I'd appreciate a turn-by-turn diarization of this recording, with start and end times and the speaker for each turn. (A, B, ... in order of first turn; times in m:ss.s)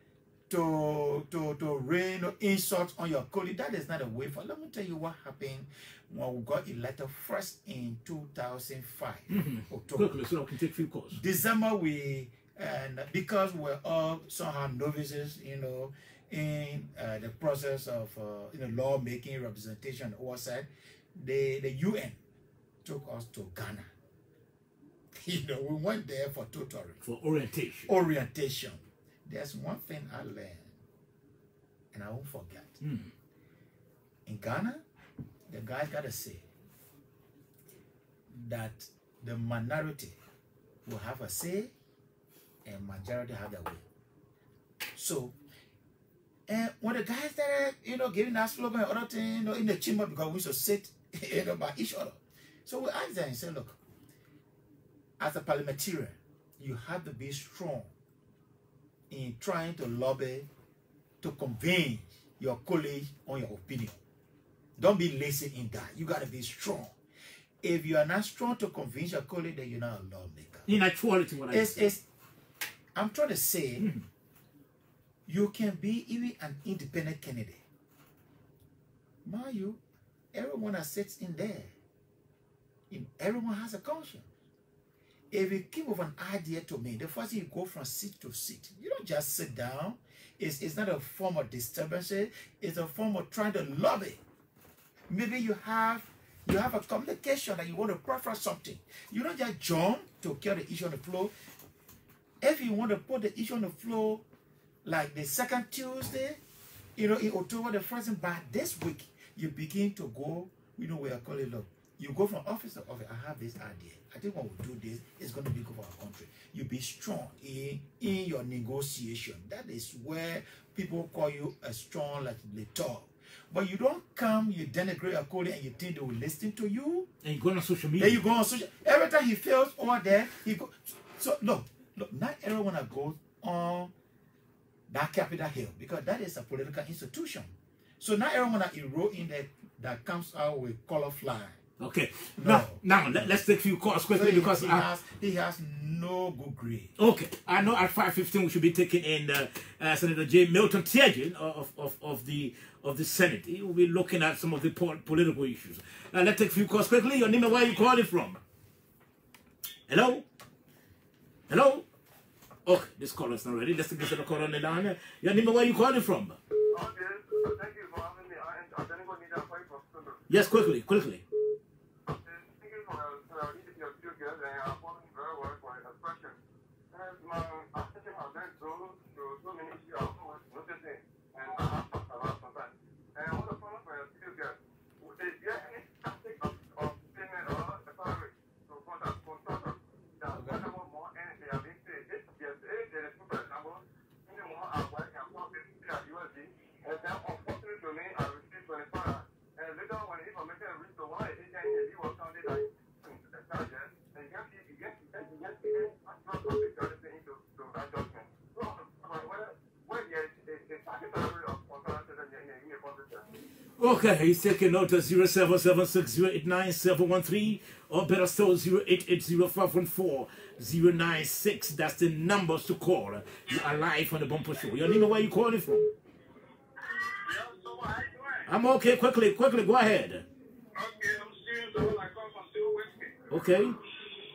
0:00.5-0:10.2 A
0:09.3-0:11.2 B
0:11.1-0:22.2 A
0:22.8-0:23.9 A
0:25.1-0:27.0 A
0:27.0-0:27.9 B
0:27.9-0:30.8 A
0:31.9-0:32.8 A
0:32.8-0:33.1 B
0:34.3-0:34.8 A
0:35.5-0:36.5 A
0:38.3-0:40.2 A
0:40.8-0:41.7 A
0:42.6-0:43.8 A
0:45.0-0:45.4 A
0:46.5-0:53.8 A
0:55.2-0:57.9 A
0:59.1-1:00.5 A
1:01.2-1:04.0 A
1:04.8-1:07.0 A
1:07.6-1:10.8 A
1:10.7-1:11.9 B
1:11.5-1:12.0 A
1:13.0-1:13.9 A
1:13.8-1:14.0 B
1:15.3-1:17.6 A
1:19.2-1:19.8 A
1:20.3-1:21.7 A
1:22.9-1:24.3 A
1:25.3-1:34.2 A
1:35.1-1:41.3 A
1:42.4-1:44.2 A
1:44.8-1:46.4 A
1:47.0-2:07.1 A
2:07.2-2:08.2 B
2:08.0-2:13.9 A
2:14.9-2:21.6 A
2:21.8-2:24.9 B
2:22.4-2:23.4 A
2:24.1-2:26.9 A
2:27.0-2:38.4 B
2:39.9-2:40.3 B
2:41.5-2:41.9 B
2:42.7-2:46.4 B
2:46.7-2:50.2 C
2:50.3-2:51.2 B
2:52.1-2:56.4 C
2:56.9-3:33.3 C
3:33.8-3:45.9 B
3:47.0-3:48.5 C
3:48.5-3:50.2 B
3:50.8-3:53.1 C
3:53.3-3:53.8 B